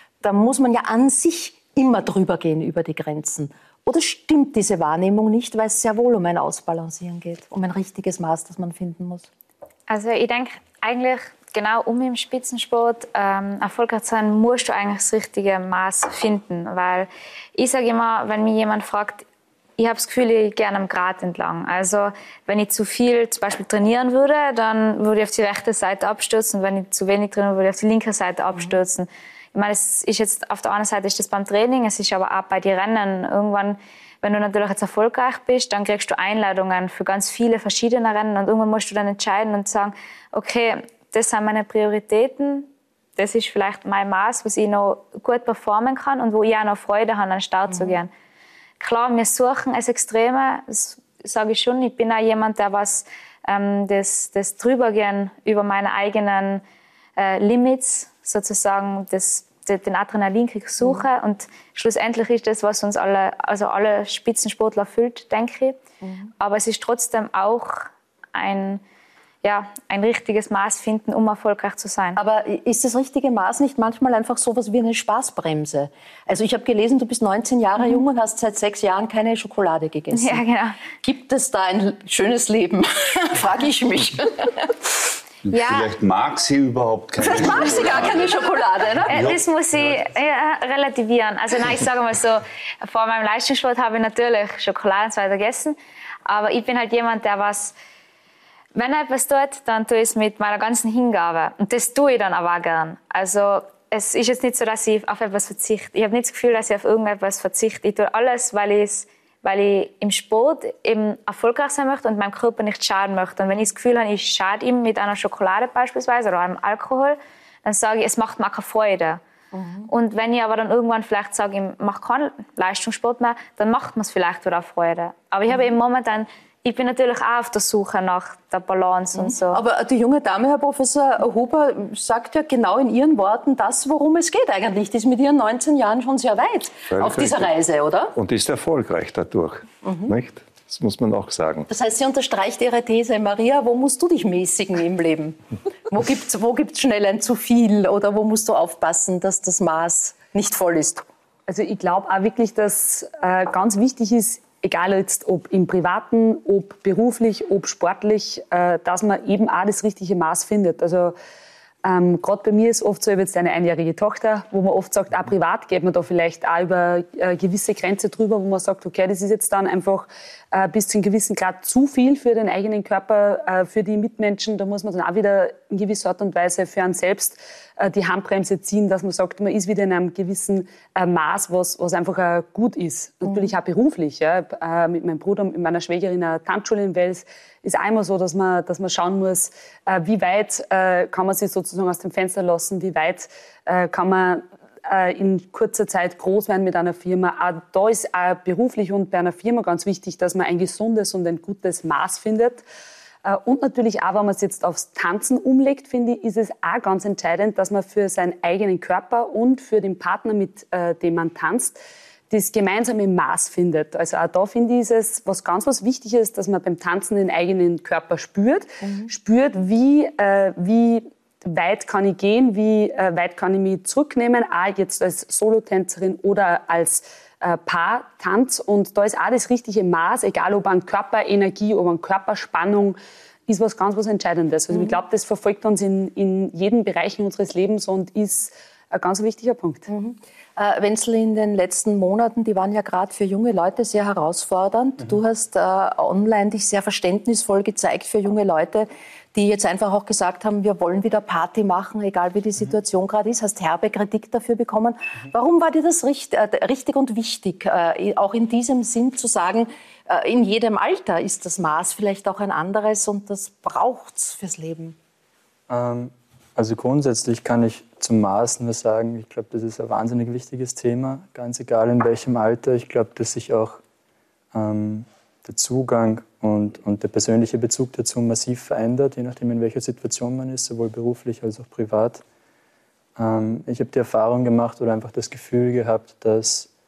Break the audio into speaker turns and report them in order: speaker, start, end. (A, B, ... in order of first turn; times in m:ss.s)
0:00.2-0:09.3 A
0:09.9-0:19.2 B
0:19.8-0:48.1 B
0:47.7-0:48.0 A
0:48.8-0:56.6 B
0:57.2-1:05.8 B
1:06.0-1:06.3 A
1:06.4-1:08.8 B
1:09.4-1:12.2 B
1:12.2-1:20.4 A
1:20.1-1:20.8 B
1:21.0-1:24.7 A
1:25.4-1:28.5 C
1:25.5-1:25.9 B
1:27.2-1:29.3 A
1:29.1-1:30.0 C
1:29.1-1:37.7 B
1:38.7-1:59.2 B
1:59.5-1:59.9 A
1:59.9-2:09.6 B
2:09.2-2:18.1 A
2:16.9-2:17.5 D
2:18.1-2:21.7 D
2:19.8-2:20.1 A
2:21.7-2:31.0 A
2:31.5-2:41.2 E
2:41.8-3:22.6 E
3:23.2-3:31.8 E
3:32.3-3:59.9 E
3:38.8-3:39.1 A
3:59.9-4:25.0 A
4:25.7-4:33.8 F
4:34.5-4:42.2 F
4:43.2-4:46.7 F